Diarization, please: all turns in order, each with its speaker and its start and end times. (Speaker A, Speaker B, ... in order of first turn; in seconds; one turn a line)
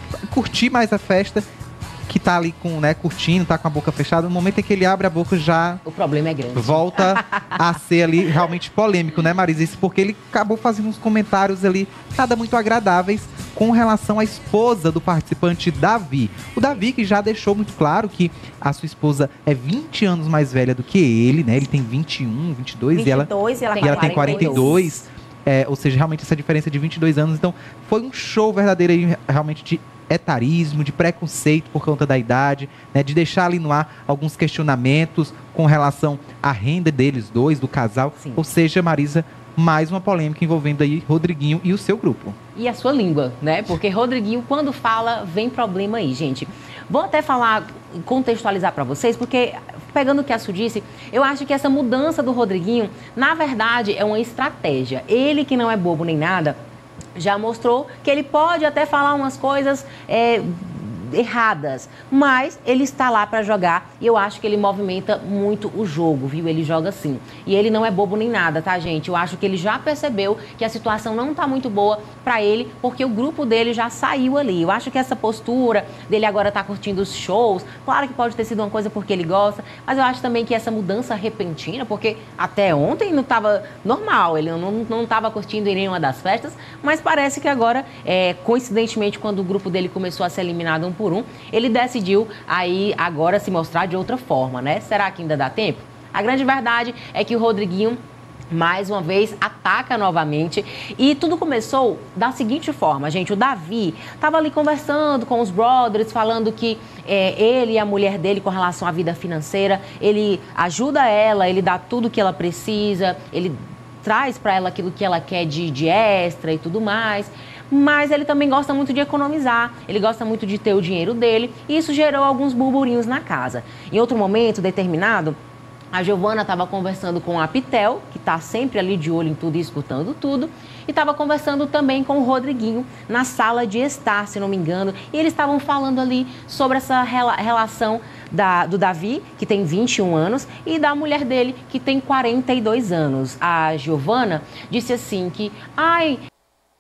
Speaker A: 0.3-1.4
Speaker A: 2.1-5.8
Speaker B: 5.8-7.6
Speaker A: 6.5-23.3
Speaker C: 22.9-24.9
Speaker B: 23.7-24.8
Speaker A: 23.8-42.4
Speaker B: 38.2-38.4
Speaker B: 42.6-56.6
Speaker B: 57.2-98.0
Speaker B: 98.5-125.4
Speaker B: 125.9-146.2